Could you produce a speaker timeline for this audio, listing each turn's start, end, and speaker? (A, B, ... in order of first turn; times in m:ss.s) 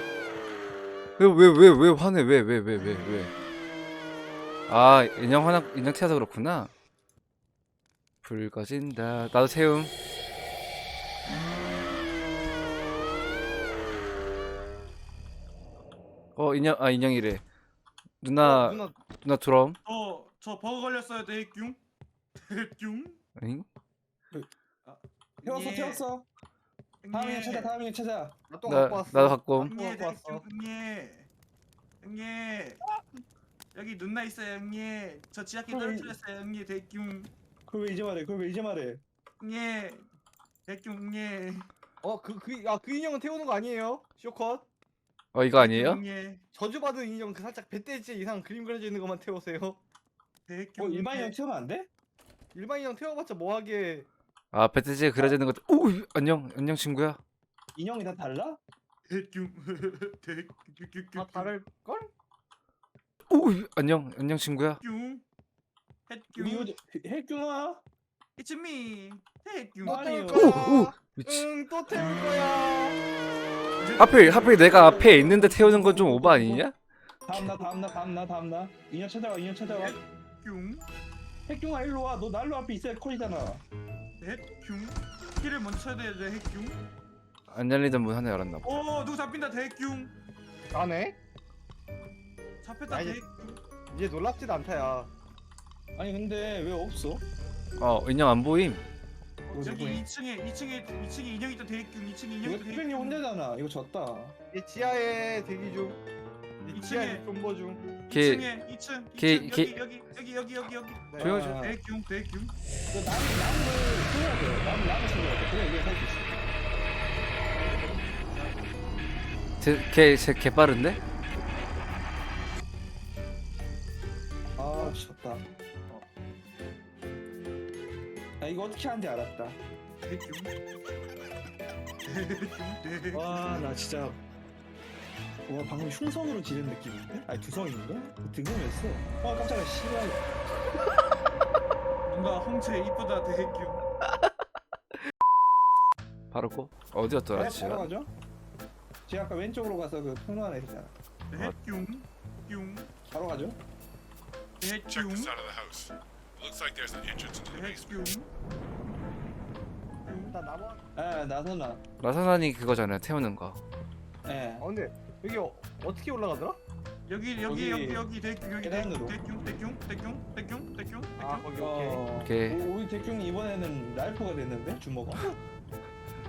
0:01.2-0:03.3 A
0:04.7-0:06.7 A
0:08.2-0:09.9 A
0:16.4-0:17.4 A
0:18.2-0:19.8 A
0:18.4-0:19.0 B
0:19.8-0:21.8 C
0:22.4-0:23.2 C
0:23.4-0:23.7 A
0:24.3-0:26.3 D
0:25.4-0:26.1 C
0:27.0-0:27.8 C
0:27.1-0:28.4 D
0:28.5-0:30.4 B
0:28.6-0:29.7 A
0:29.6-0:31.3 C
0:32.0-0:32.8 C
0:32.9-0:33.2 D
0:33.7-0:37.3 C
0:35.7-0:36.2 D
0:37.7-0:39.0 D
0:39.4-0:40.1 C
0:40.7-0:41.7 C
0:42.0-0:44.7 B
0:45.3-0:46.0 A
0:45.6-0:46.4 C
0:46.5-0:49.8 B
0:50.5-0:51.4 C
0:50.8-0:51.9 D
0:52.5-0:54.1 B
0:54.5-0:57.2 A
0:57.8-0:58.6 D
0:59.1-1:01.5 C
1:01.2-1:02.1 B
1:03.3-1:04.8 A
1:04.8-1:05.2 C
1:06.1-1:06.8 C
1:06.4-1:07.8 D
1:08.4-1:10.1 C
1:09.8-1:10.6 D
1:09.8-1:13.0 B
1:10.3-1:11.5 A
1:13.8-1:15.3 C
1:14.0-1:16.8 A
1:14.7-1:16.7 D
1:17.3-1:20.0 D
1:19.7-1:20.9 C
1:21.5-1:23.6 D
1:24.2-1:26.8 C
1:27.5-1:28.8 A
1:28.6-1:30.1 C
1:30.7-1:31.2 B
1:32.6-1:33.6 C
1:32.9-1:33.2 B
1:33.9-1:35.1 B
1:36.0-1:37.2 D
1:37.8-1:38.8 A
1:39.5-1:43.2 C
1:39.5-1:40.0 D
1:42.4-1:44.4 D
1:44.5-1:46.0 B
1:46.6-1:47.8 B
1:46.7-1:47.2 C
1:48.0-1:52.5 C
1:48.1-1:48.5 A
1:49.2-1:49.7 A
1:51.1-1:51.4 B
1:51.2-1:51.8 D
1:51.2-1:51.6 A
1:52.9-1:56.5 D
1:57.5-1:58.8 C
1:59.6-2:01.0 A
2:04.6-2:05.4 D
2:04.7-2:05.0 B
2:08.4-2:09.6 D
2:10.0-2:10.5 C
2:12.0-2:13.7 C
2:13.1-2:14.2 D
2:15.5-2:20.3 D
2:22.1-2:23.8 C
2:26.3-2:27.9 A
2:27.3-2:28.1 D
2:29.1-2:30.9 D
2:31.3-2:32.9 C
2:33.1-2:33.6 D
2:34.6-2:35.4 C
2:34.7-2:38.2 E
2:37.5-2:38.3 C
2:40.0-2:40.4 C
2:40.3-2:40.8 B
2:41.0-2:41.8 D
2:42.0-2:43.6 A
2:44.2-2:44.7 D
2:44.6-2:46.6 B
2:47.1-2:51.5 C
2:47.5-2:48.1 D
2:48.6-2:49.2 D
2:51.2-2:52.0 B
2:51.6-2:55.3 D
2:52.2-2:52.6 A